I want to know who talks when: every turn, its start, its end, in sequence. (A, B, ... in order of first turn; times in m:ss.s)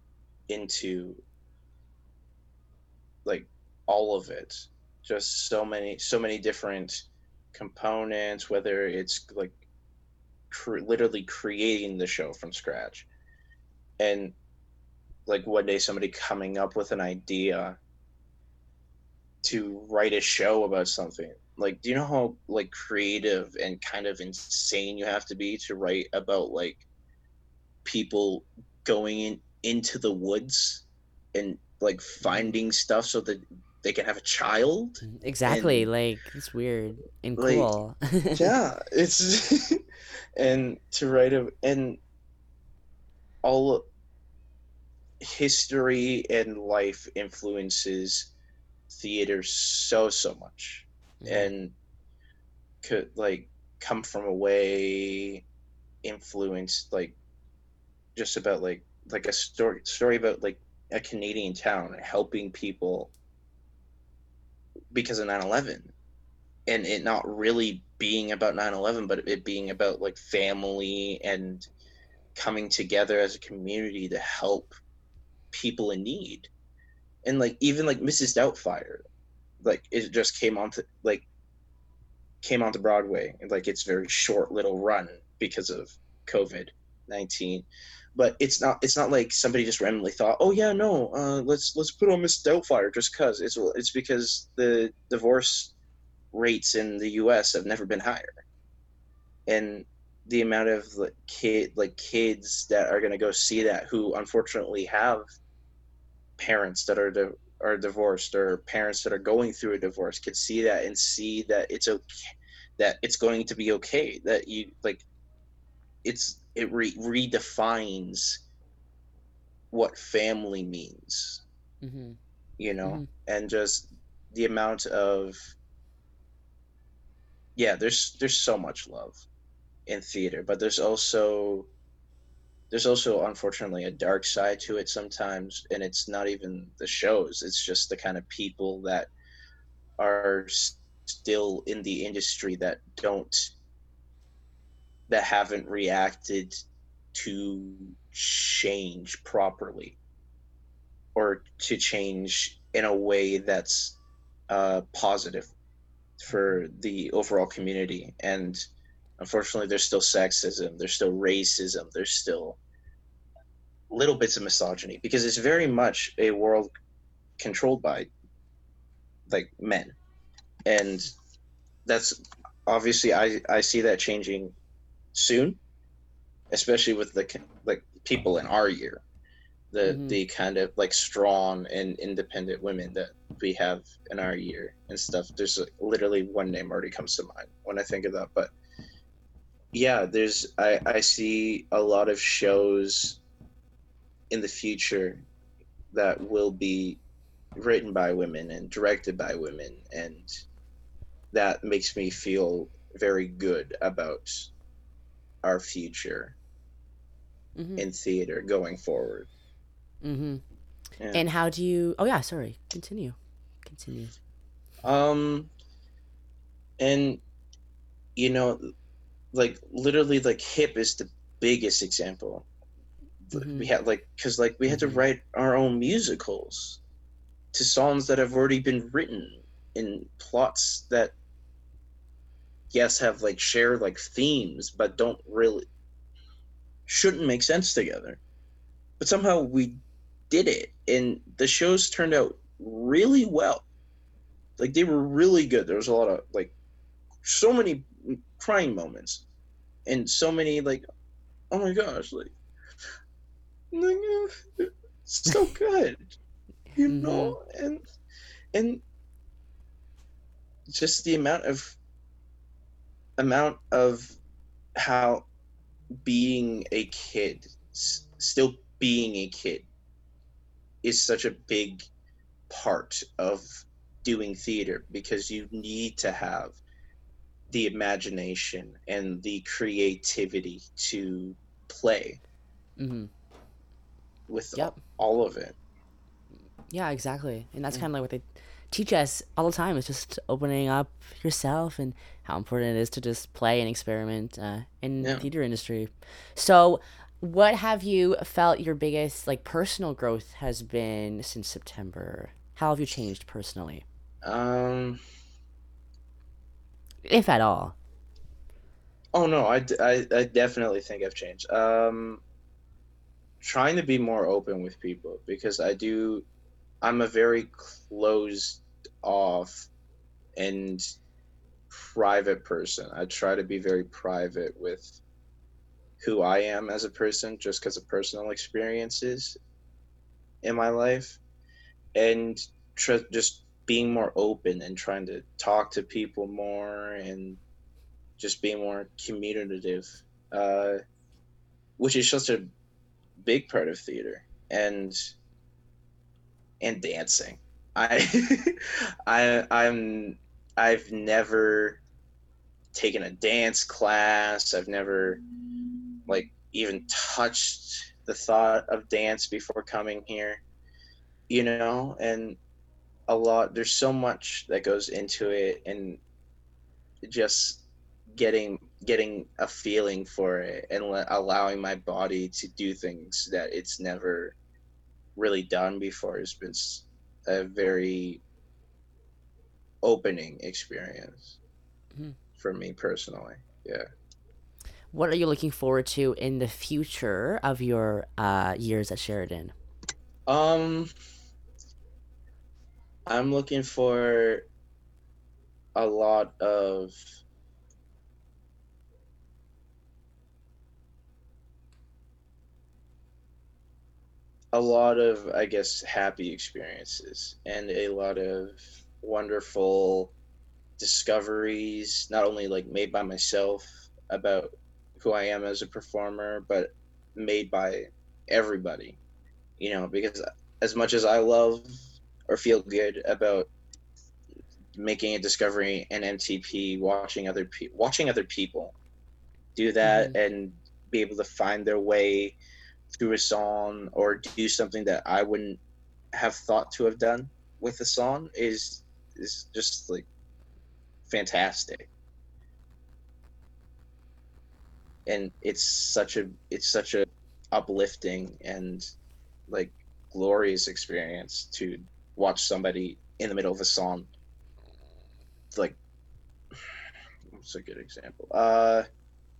0:00.5-0:01.2 A
0:03.2-0:09.6 A
0:10.5-0:13.1 A
0:14.0-0:14.3 A
0:15.3-0:17.8 A
0:19.4-0:26.8 A
0:27.8-0:35.9 A
0:32.2-0:32.5 B
0:35.0-0:38.5 B
0:37.4-0:37.7 A
0:38.3-0:39.8 A
0:40.4-0:42.0 A
0:43.4-0:43.9 A
0:45.2-0:48.3 A
0:48.9-0:51.7 A
0:51.2-0:51.5 B
0:52.8-0:55.4 A
0:56.0-0:57.2 A
0:58.1-1:03.1 A
1:04.9-1:05.9 A
1:06.7-1:11.7 A
1:12.3-1:14.7 A
1:15.5-1:16.5 A
1:17.2-1:19.0 A
1:19.6-1:21.2 A
1:22.4-1:35.7 A
1:36.3-1:38.4 A
1:39.4-1:45.2 A
1:46.4-1:55.0 A
1:56.0-1:58.4 A
1:59.7-2:01.4 A
2:01.8-2:02.2 B
2:02.6-2:05.5 A
2:02.8-2:03.1 B
2:07.6-2:09.2 A
2:09.9-2:11.7 A
2:12.7-2:19.1 A
2:20.0-2:23.5 A
2:25.1-2:26.6 A
2:27.1-2:30.0 A
2:31.1-2:34.0 A
2:34.5-2:35.5 A
2:36.2-2:42.6 A
2:43.9-2:46.7 A
2:47.4-2:48.1 A
2:49.3-2:50.0 A
2:50.6-2:51.1 A
2:51.8-2:54.5 A
2:55.1-2:55.6 A
2:56.5-2:59.0 A
2:59.7-3:08.5 A
2:59.8-3:00.2 B
3:09.7-3:13.2 A
3:14.3-3:15.2 A
3:15.9-3:17.0 A
3:17.5-3:20.4 A
3:21.3-3:24.5 A
3:25.4-3:26.4 A
3:27.6-3:27.8 B
3:27.8-3:29.3 A
3:30.0-3:30.4 B
3:31.1-3:34.1 B
3:34.8-3:35.5 A
3:36.8-3:37.2 A
3:38.2-3:38.7 A
3:39.3-3:42.5 A
3:43.2-3:46.8 A
3:43.3-3:43.7 B
3:44.7-3:45.0 B
3:47.5-3:51.1 A
3:52.7-3:55.6 A
3:56.9-3:58.2 A
3:59.0-3:59.8 A
4:00.3-4:03.6 A
4:04.6-4:06.5 A
4:07.2-4:09.2 A
4:09.8-4:10.8 A
4:11.5-4:12.3 A
4:13.7-4:16.1 A
4:16.8-4:17.8 A
4:16.8-4:17.4 B
4:18.5-4:18.8 A
4:20.7-4:21.8 A
4:23.2-4:24.2 A
4:24.8-4:25.3 A
4:26.0-4:29.7 A
4:30.8-4:31.9 A
4:32.5-4:36.6 A
4:37.5-4:42.2 A
4:42.8-4:43.1 B
4:44.3-4:45.6 A
4:46.7-5:03.8 B
4:55.0-4:55.3 A
5:04.2-5:05.0 A
5:07.0-5:07.8 B
5:09.1-5:12.2 A
5:13.4-5:16.2 A
5:16.8-5:19.7 A
5:20.4-5:21.0 A
5:21.7-5:25.0 A
5:26.0-5:29.4 A
5:30.4-5:31.2 A
5:31.9-5:37.4 A
5:38.2-5:40.8 A
5:41.8-5:42.5 A
5:43.2-5:45.1 A
5:46.6-5:51.8 A
5:52.7-5:55.2 A
5:56.1-6:00.4 A
6:01.3-6:02.4 A
6:03.1-6:06.0 A
6:07.0-6:14.4 A
6:15.2-6:18.2 A
6:19.8-6:21.4 A
6:22.4-6:23.9 A
6:24.9-6:29.5 B
6:30.3-6:30.9 A
6:33.0-6:34.4 A
6:35.7-6:37.0 A
6:44.5-6:50.1 A
6:50.8-6:59.0 A
6:59.6-7:03.5 A
7:04.8-7:08.7 A
7:09.5-7:12.4 A
7:09.8-7:10.2 B
7:12.9-7:15.6 A
7:16.1-7:20.1 A
7:21.1-7:21.9 A
7:25.0-7:28.9 A
7:29.5-7:34.1 A
7:35.5-7:35.8 A
7:37.3-7:38.8 A